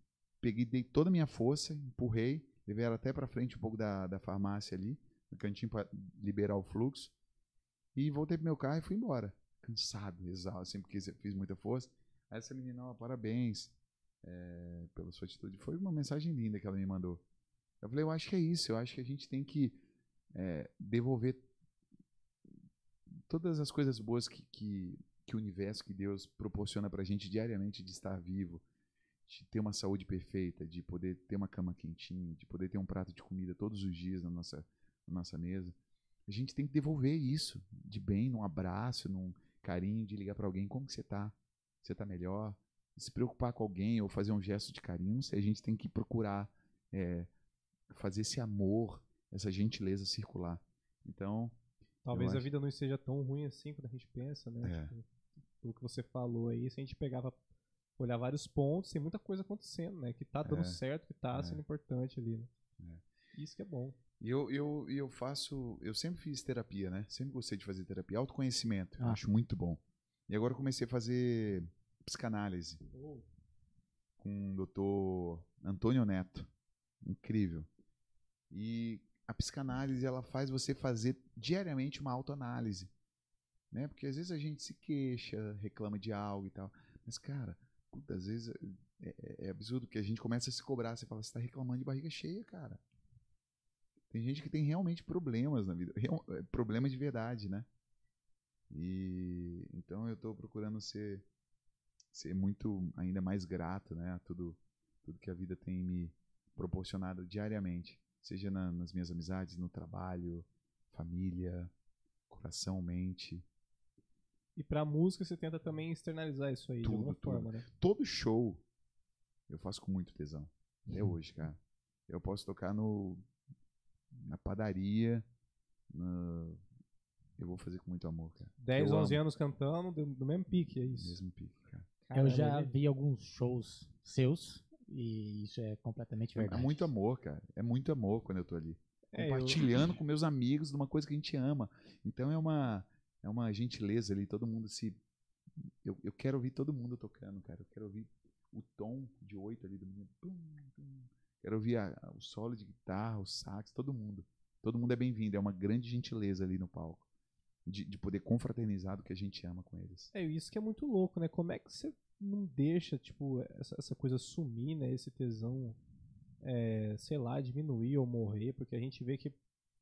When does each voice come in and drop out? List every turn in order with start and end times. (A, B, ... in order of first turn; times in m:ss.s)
0:00.4-0:07.1 A
0:07.9-0:13.7 A
0:14.2-0:17.2 A
0:17.8-0:19.8 A
0:20.3-0:21.5 A
0:23.1-0:28.6 A
0:29.3-0:35.8 A
0:36.3-0:47.3 A
0:47.9-0:51.6 A
0:52.0-0:55.0 B
0:52.1-0:52.5 A
0:54.6-0:54.9 A
0:55.6-0:57.4 B
0:58.0-1:02.5 B
1:00.4-1:00.8 A
1:01.3-1:01.6 A
1:02.8-1:03.0 A
1:03.3-1:04.0 B
1:04.2-1:12.8 A
1:12.9-1:13.2 B
1:14.2-1:16.5 A
1:17.0-1:17.7 A
1:18.5-1:22.9 A
1:23.7-1:32.8 A
1:34.1-1:37.7 A
1:38.7-1:41.2 A
1:42.1-1:51.7 A
1:52.3-1:53.4 A
1:54.6-1:57.6 B
1:56.8-1:58.6 A
1:59.5-2:03.2 A
2:04.1-2:05.2 A
2:05.9-2:06.6 A
2:07.4-2:09.2 A
2:08.6-2:11.2 B
2:10.9-2:11.9 A
2:12.0-2:12.7 B
2:12.1-2:16.9 C
2:16.4-2:25.0 A
2:19.1-2:19.6 B
2:25.8-2:37.0 A
2:37.6-2:40.1 A
2:40.1-2:45.8 B
2:46.4-2:49.4 B